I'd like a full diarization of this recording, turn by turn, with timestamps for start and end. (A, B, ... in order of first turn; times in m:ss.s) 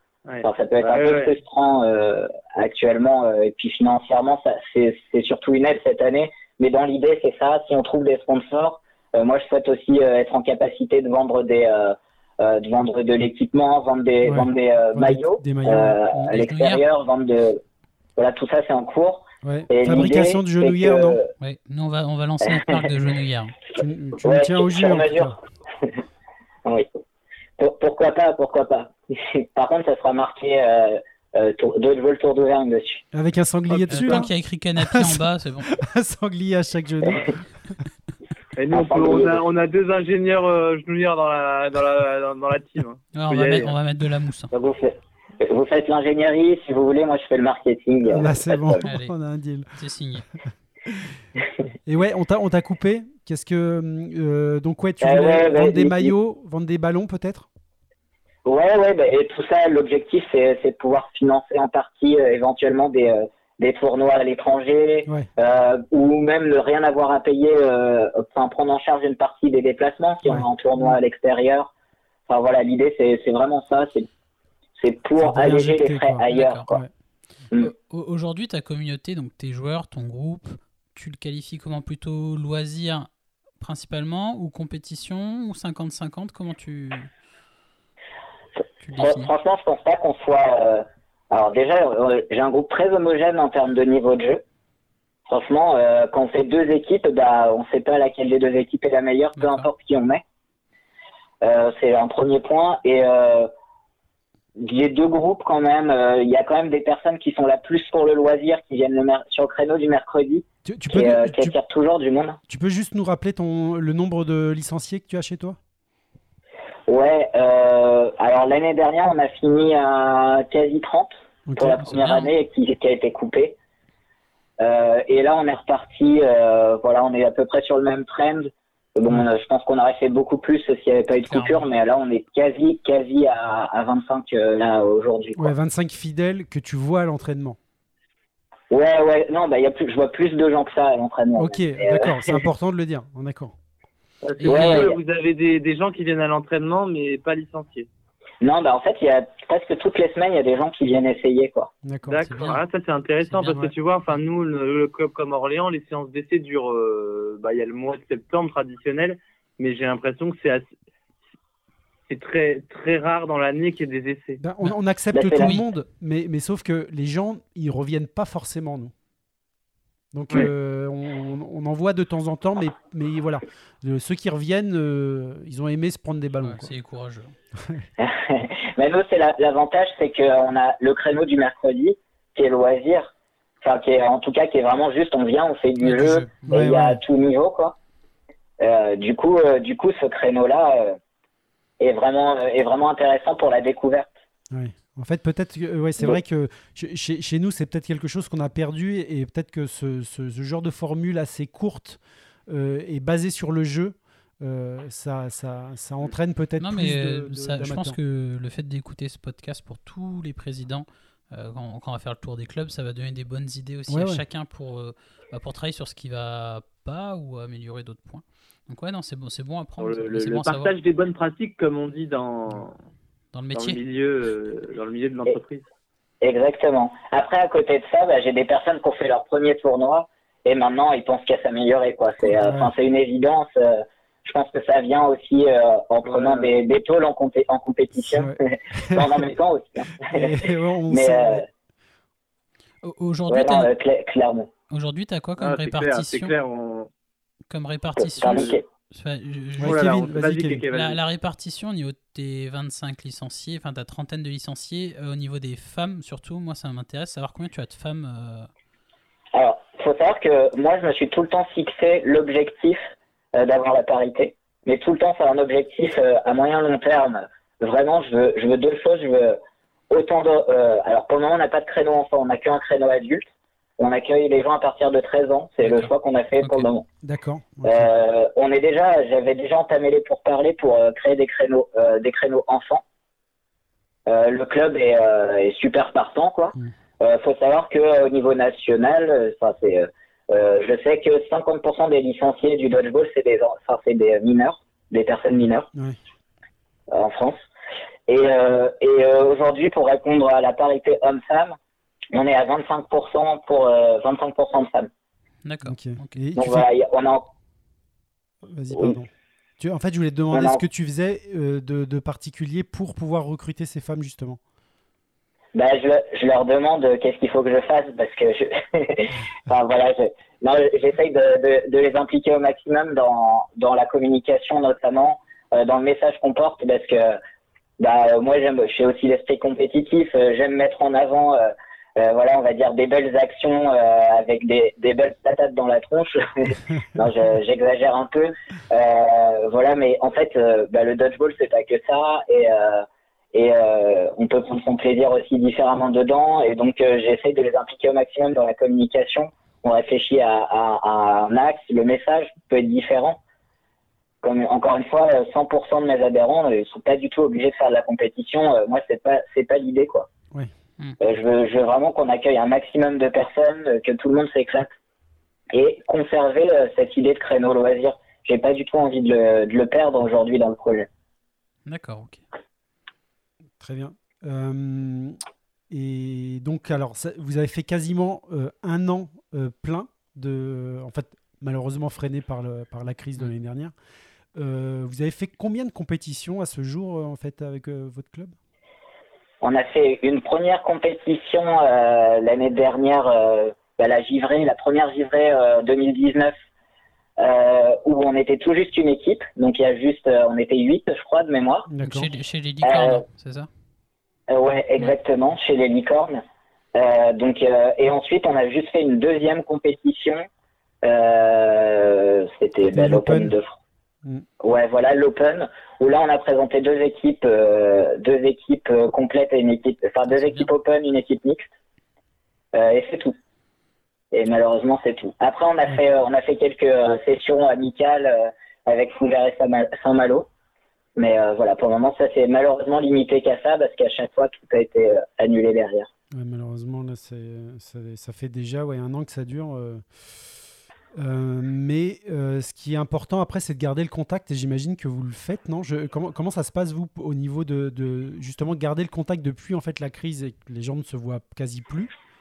0:00.3-0:01.3 A
0:00.4-0:17.6 B
0:14.2-0:16.4 C
0:16.3-0:16.8 D
0:18.2-0:21.3 B
0:19.4-0:21.2 C
0:21.4-0:23.6 D
0:22.5-0:22.8 B
0:23.8-0:25.4 C
0:24.2-0:25.9 B
0:27.6-0:33.0 B
0:33.1-0:37.8 C
0:33.7-0:34.3 A
0:33.9-0:35.7 D
0:38.6-0:43.8 A
0:38.7-0:39.4 B
0:43.1-0:44.5 D
0:44.5-0:48.8 B
0:48.0-0:49.7 C
0:48.8-0:49.2 D
0:49.7-0:50.3 D
0:50.9-0:57.5 C
0:55.0-0:56.1 B
0:58.4-1:11.7 B
1:10.2-1:11.0 C
1:12.3-1:14.1 B
1:14.8-1:16.8 B
1:15.2-1:16.9 C
1:16.3-1:16.7 D
1:17.6-1:23.1 D
1:23.6-1:27.1 D
1:28.8-1:29.3 D
1:29.0-1:34.4 B
1:35.3-1:40.2 B
1:39.4-1:39.7 D
1:41.4-1:43.5 B
1:44.6-1:52.4 B
1:50.6-1:51.5 C
1:52.5-1:55.6 C
1:56.9-2:03.6 B
2:01.5-2:01.8 C
2:01.8-2:02.3 D
2:04.6-2:15.5 B
2:11.3-2:11.6 D
2:15.4-2:17.6 C
2:18.7-2:22.4 B
2:21.4-2:23.6 C
2:24.2-2:27.9 A
2:24.4-2:24.9 D
2:24.5-2:25.0 B
2:28.4-2:31.7 B
2:31.8-2:32.2 C
2:32.1-2:40.7 A
2:32.2-2:32.6 D
2:33.2-2:34.2 D
2:42.1-2:44.4 A
2:44.4-2:48.9 C
2:45.1-2:45.6 B
2:50.1-2:56.7 C
2:56.4-2:57.4 D
2:57.6-2:57.9 C
2:58.0-3:07.8 B
3:05.8-3:06.5 D
3:06.4-3:07.0 C
3:08.6-3:11.0 B
3:11.8-3:14.1 B
3:14.5-3:28.0 C
3:26.6-3:40.7 D
3:33.9-3:34.2 C
3:39.8-3:42.8 A
3:43.3-3:43.8 D
3:43.5-3:45.6 A
3:46.2-4:00.3 B
3:52.2-3:52.7 C
3:56.1-3:56.5 A
3:58.0-3:59.3 C
4:00.0-4:01.4 C
4:00.9-4:01.4 B
4:02.8-4:03.7 D
4:03.3-4:04.5 B
4:04.7-4:06.3 D
4:05.4-4:06.9 A
4:07.5-4:09.9 D
4:08.0-4:08.6 B
4:08.2-4:08.6 A
4:09.6-4:10.6 C
4:09.6-4:11.0 A
4:10.7-4:18.5 D
4:19.4-4:29.4 B
4:29.9-4:36.9 B
4:35.6-4:35.9 D
4:36.4-4:36.7 D
4:37.0-4:37.9 C
4:37.6-4:42.8 B
4:44.1-4:55.7 B
4:56.9-4:57.4 B
4:58.1-5:01.6 B
5:02.1-5:04.9 B
5:05.4-5:06.2 D
5:05.6-5:06.7 C
5:06.4-5:07.3 B
5:08.4-5:14.4 C
5:10.3-5:10.6 B
5:15.6-5:27.2 B
5:27.8-5:53.2 B
5:54.2-6:00.1 B
6:01.0-6:04.7 B
6:05.5-6:10.9 B
6:11.7-6:12.2 D
6:13.6-6:15.2 C
6:15.7-6:23.7 C
6:24.4-6:28.4 C
6:29.4-6:36.3 B
6:37.2-6:41.7 B
6:41.7-6:42.1 C
6:41.8-6:43.5 D
6:42.6-6:43.0 B
6:44.3-6:46.2 B
6:46.8-6:50.3 B
6:50.8-6:53.6 B
6:52.7-6:53.4 C
6:54.4-7:01.5 B
7:00.1-7:00.5 D
7:02.5-7:03.2 B
7:04.1-7:10.3 B
7:11.0-7:15.9 B
7:16.1-7:19.8 C
7:20.9-7:31.9 C